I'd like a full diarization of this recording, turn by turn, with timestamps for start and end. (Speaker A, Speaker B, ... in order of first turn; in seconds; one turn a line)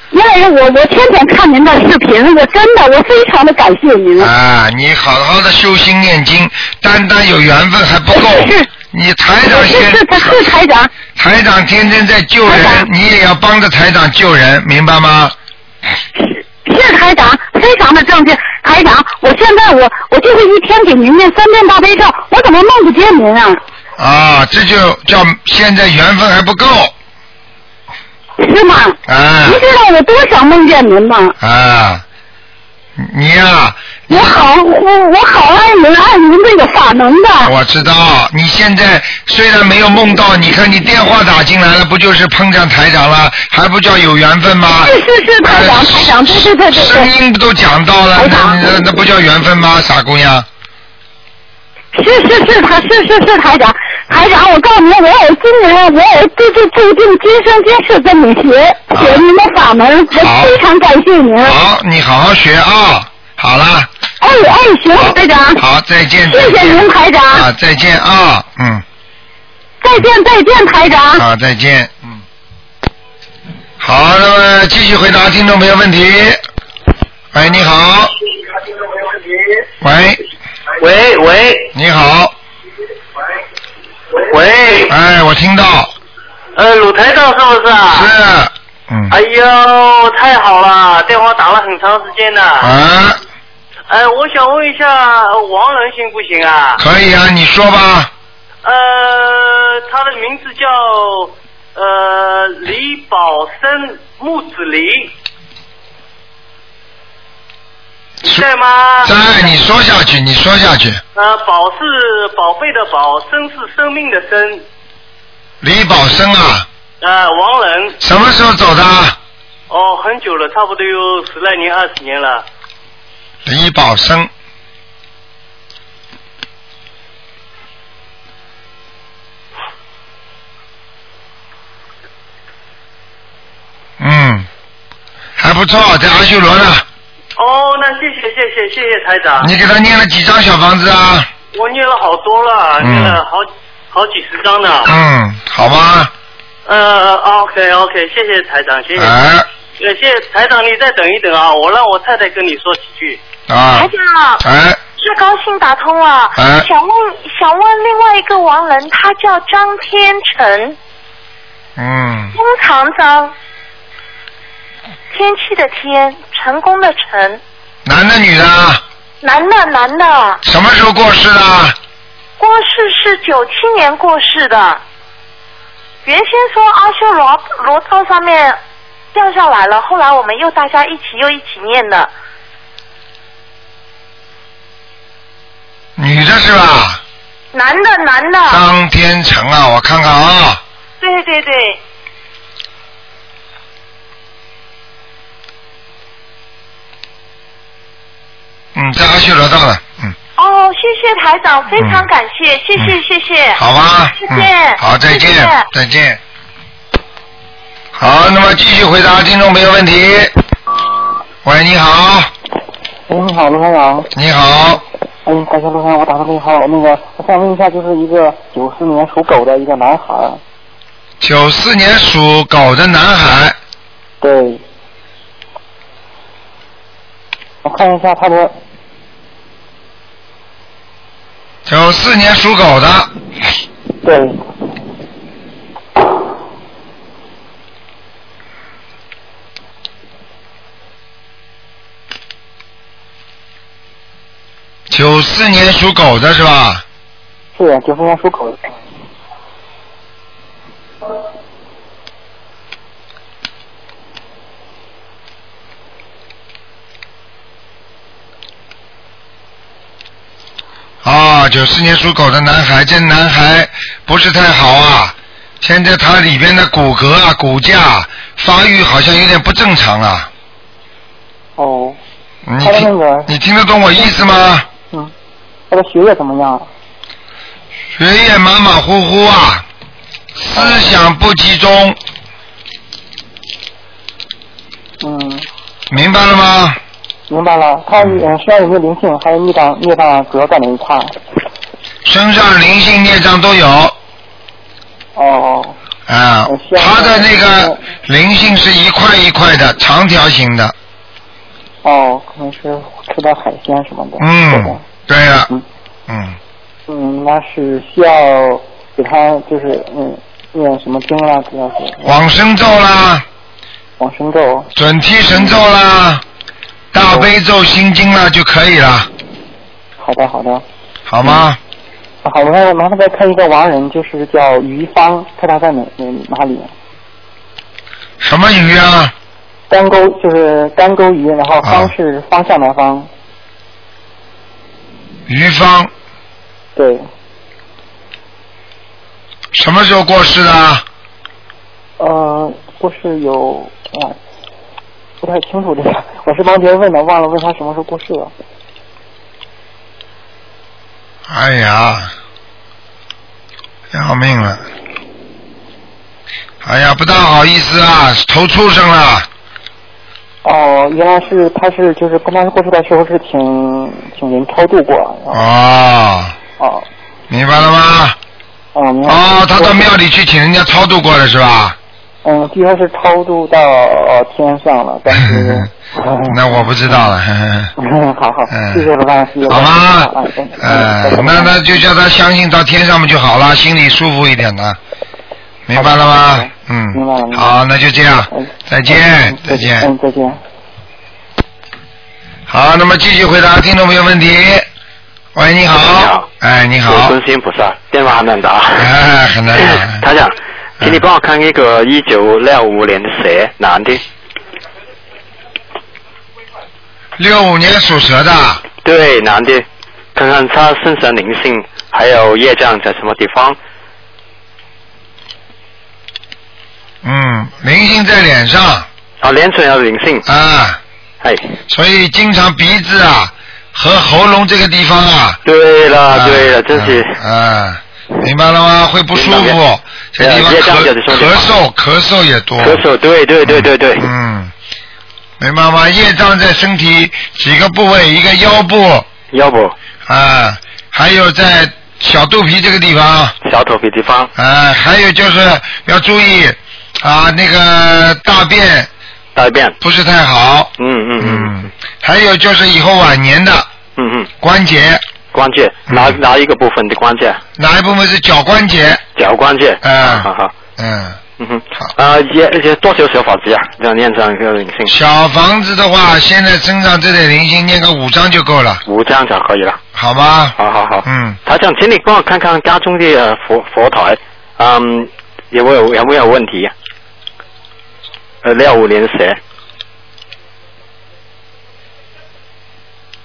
Speaker A: 0.1-4.3
Speaker B: 4.2-10.5
Speaker A: 8.1-8.7
Speaker A: 9.5-10.9
Speaker B: 11.2-15.3
Speaker A: 12.5-12.9
Speaker A: 16.1-23.6
Speaker B: 24.0-26.9
Speaker A: 28.4-31.4
Speaker B: 29.1-29.6
Speaker B: 31.4-32.0
Speaker B: 33.0-34.4
Speaker A: 34.1-37.5
Speaker B: 37.4-50.5
Speaker A: 44.8-47.1
Speaker A: 48.2-48.6
Speaker A: 51.9-61.6
Speaker B: 58.9-59.2
Speaker B: 60.1-60.6
Speaker B: 61.4-63.9
Speaker A: 64.2-65.6
Speaker B: 65.0-68.8
Speaker A: 66.3-67.5
Speaker A: 69.8-71.2
Speaker B: 71.2-72.2
Speaker B: 73.8-76.4
Speaker B: 77.3-78.1
Speaker B: 79.8-80.2
Speaker C: 80.8-81.7
Speaker B: 81.7-82.3
Speaker C: 84.2-84.9
Speaker B: 84.9-85.9
Speaker C: 86.5-88.1
Speaker B: 87.9-89.2
Speaker C: 89.1-92.7
Speaker B: 92.6-93.2
Speaker C: 93.9-96.8
Speaker B: 96.8-98.1
Speaker C: 98.6-105.1
Speaker C: 108.2-109.6
Speaker B: 109.0-111.0
Speaker C: 111.2-114.7
Speaker B: 115.6-116.7
Speaker C: 117.0-118.0
Speaker B: 118.0-119.2
Speaker C: 119.7-122.5
Speaker B: 123.5-124.3
Speaker B: 134.0-134.5
Speaker B: 135.4-136.9
Speaker C: 137.4-139.5
Speaker B: 139.4-141.3
Speaker C: 141.5-144.9
Speaker B: 142.8-143.2
Speaker B: 144.8-146.1
Speaker C: 146.7-149.2
Speaker B: 149.0-149.5
Speaker C: 149.8-153.2
Speaker B: 153.5-154.8
Speaker D: 153.7-154.4
Speaker D: 155.0-160.8
Speaker B: 156.4-156.7
Speaker B: 161.8-162.4
Speaker D: 162.3-163.3
Speaker D: 165.1-167.4
Speaker B: 167.8-168.8
Speaker D: 169.2-170.4
Speaker B: 170.4-171.8
Speaker D: 172.4-174.8
Speaker D: 176.1-178.6
Speaker D: 179.1-182.1
Speaker B: 186.0-187.0
Speaker D: 187.5-188.6
Speaker B: 188.5-190.6
Speaker D: 191.0-191.8
Speaker B: 198.8-200.2
Speaker D: 200.4-203.6
Speaker B: 201.8-202.1
Speaker B: 203.6-206.2
Speaker D: 204.2-205.7
Speaker B: 207.9-210.3
Speaker B: 211.4-212.3
Speaker E: 213.1-214.1
Speaker B: 214.1-214.8
Speaker E: 215.2-220.4
Speaker B: 221.2-223.6
Speaker E: 224.2-224.6
Speaker E: 227.6-228.5
Speaker B: 231.7-233.1
Speaker E: 234.0-234.4
Speaker B: 244.9-246.8
Speaker E: 247.6-248.6
Speaker B: 261.0-270.3
Speaker E: 271.6-272.0
Speaker B: 272.5-274.7
Speaker E: 272.6-273.3
Speaker E: 275.7-276.7
Speaker B: 278.0-279.6
Speaker B: 280.4-282.0
Speaker E: 280.6-280.9
Speaker E: 285.0-285.5
Speaker B: 285.9-286.8
Speaker E: 287.3-291.1
Speaker B: 288.0-288.2
Speaker B: 292.1-293.9
Speaker E: 295.2-295.8
Speaker B: 296.1-300.8
Speaker E: 296.5-297.8
Speaker E: 301.8-304.8
Speaker B: 304.2-305.5
Speaker B: 306.1-306.4
Speaker E: 306.9-312.0
Speaker B: 312.0-313.2
Speaker E: 314.0-314.7
Speaker B: 314.8-316.2
Speaker B: 316.9-319.1
Speaker E: 320.0-320.6
Speaker B: 321.1-321.6
Speaker E: 322.2-326.7
Speaker B: 328.2-329.1
Speaker E: 329.7-333.1
Speaker B: 331.6-331.9
Speaker B: 335.3-335.9
Speaker E: 336.8-337.1
Speaker B: 339.5-340.9
Speaker E: 342.0-344.2
Speaker E: 345.2-348.3
Speaker B: 351.3-352.1
Speaker B: 353.9-354.6
Speaker B: 356.6-359.3
Speaker E: 360.4-365.4
Speaker B: 365.3-366.4
Speaker E: 366.6-366.9
Speaker B: 367.3-368.2
Speaker E: 368.7-369.9
Speaker B: 369.1-371.8
Speaker E: 372.2-377.1
Speaker B: 375.4-375.7
Speaker B: 376.3-377.7
Speaker E: 377.8-381.8
Speaker B: 378.5-378.9
Speaker B: 379.4-384.8
Speaker B: 385.7-389.9
Speaker E: 385.7-387.6
Speaker E: 388.3-390.4
Speaker B: 392.5-394.7
Speaker B: 395.4-397.1
Speaker F: 395.8-396.3
Speaker F: 396.9-398.9
Speaker B: 398.8-400.0
Speaker F: 399.6-404.0
Speaker B: 407.2-408.6
Speaker F: 408.8-413.6
Speaker B: 417.0-418.9
Speaker F: 419.2-420.2
Speaker B: 420.3-420.8
Speaker F: 421.2-421.6
Speaker B: 421.7-425.4
Speaker F: 425.4-427.2
Speaker B: 426.1-432.8
Speaker F: 429.1-429.6
Speaker F: 430.2-431.5
Speaker F: 432.6-434.1
Speaker B: 433.5-434.5
Speaker B: 435.4-439.1
Speaker F: 439.3-439.7
Speaker B: 440.1-443.4
Speaker F: 443.4-444.3
Speaker B: 444.4-448.9
Speaker F: 449.4-449.8
Speaker B: 449.8-453.7
Speaker F: 450.8-451.7
Speaker F: 454.0-454.3
Speaker B: 454.4-455.0
Speaker F: 455.3-457.4
Speaker B: 455.9-456.1
Speaker B: 457.6-459.1
Speaker F: 459.2-460.5
Speaker B: 459.8-461.2
Speaker F: 461.4-464.9
Speaker B: 464.9-468.8
Speaker F: 468.9-469.8
Speaker B: 470.0-471.4
Speaker F: 470.6-476.7
Speaker F: 478.4-479.4